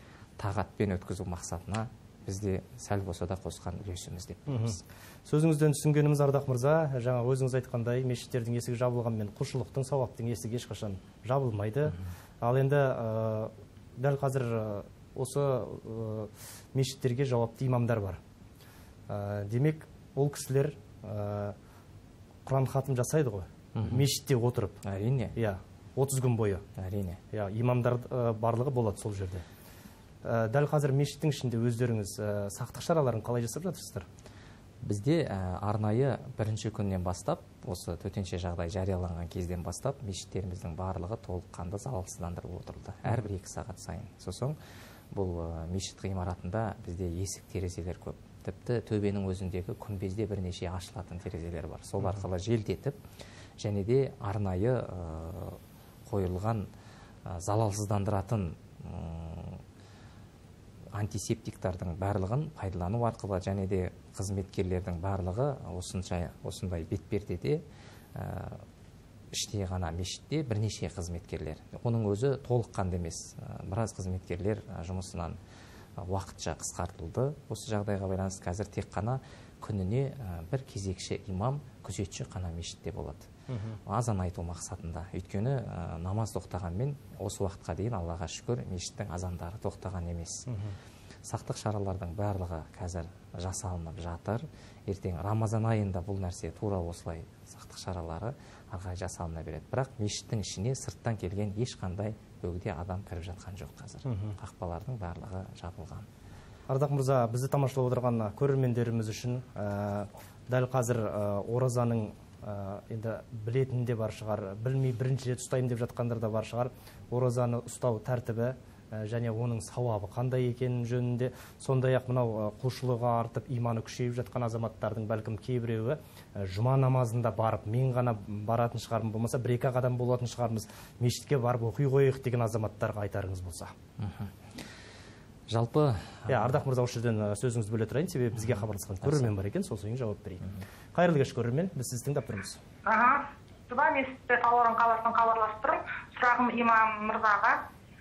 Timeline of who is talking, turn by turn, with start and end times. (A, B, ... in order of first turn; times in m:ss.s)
0:00.4-0:04.8 A
0:04.5-0:18.2 B
0:19.1-0:21.6 B
0:22.4-0:24.8 B
0:23.8-0:24.1 A
0:24.8-0:25.4 A
0:25.4-0:26.6 B
0:26.8-0:27.2 A
0:27.3-0:29.4 B
0:30.2-0:34.1 B
0:34.8-0:44.6 A
0:45.1-0:53.0 A
0:53.6-0:56.7 A
0:57.3-0:59.6 A
1:01.0-1:07.6 A
1:08.2-1:08.6 A
1:09.3-1:15.4 A
1:16.0-1:23.3 A
1:23.5-1:23.8 B
1:23.9-1:30.5 A
1:30.5-1:30.8 B
1:31.3-1:46.1 A
1:44.1-1:44.4 B
1:46.7-2:13.7 B
2:14.0-2:14.3 A
2:15.5-2:16.6 A
2:16.3-2:22.6 B
2:18.5-2:19.3 A
2:22.9-2:27.6 C